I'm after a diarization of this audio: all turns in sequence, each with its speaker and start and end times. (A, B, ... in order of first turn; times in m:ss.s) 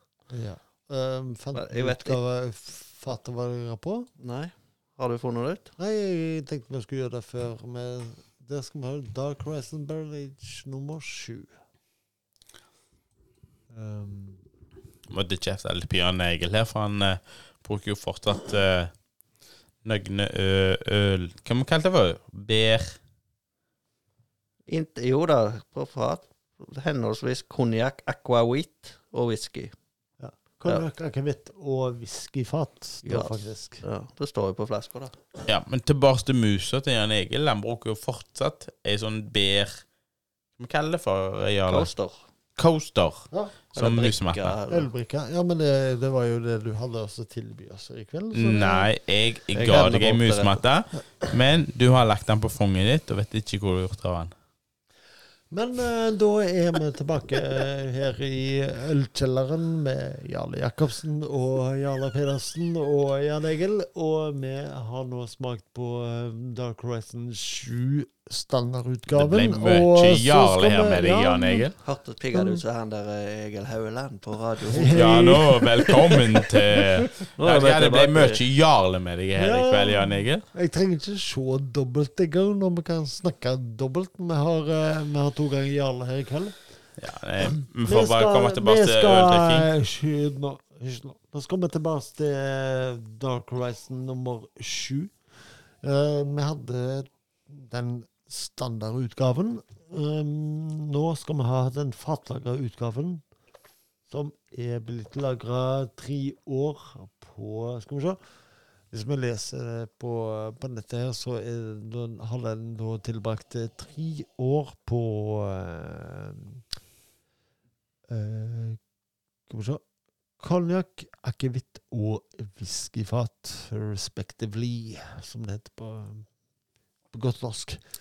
0:00.3-0:04.1 A
0:01.5-0:02.2 B
0:04.2-0:05.7 B
0:05.8-0:11.5 A
0:13.7-0:14.4 A
0:15.1-0:18.9 C
0:19.8-0:23.0 C
0:24.7-0:29.7 B
0:30.2-0:33.8 A
0:33.0-0:35.2 B
0:35.4-0:39.8 C
0:40.6-0:41.9 C
0:41.7-0:42.2 B
0:42.6-0:44.6 C
0:43.7-0:44.9 B
0:44.7-0:48.9 A
0:48.3-0:54.3 C
0:49.5-0:50.6 B
0:55.5-1:11.7 A
1:09.1-1:11.7 C
1:11.8-1:15.3 B
1:12.3-1:12.6 A
1:14.7-1:17.1 A
1:14.9-1:20.4 C
1:17.4-1:18.4 B
1:19.4-1:26.5 A
1:27.0-1:29.7 C
1:27.8-1:35.1 A
1:35.8-1:43.2 A
1:44.1-1:48.2 A
1:48.9-1:56.6 A
1:58.1-1:58.8 A
1:59.5-1:59.8 A
2:00.4-2:06.2 A
2:07.1-2:07.8 A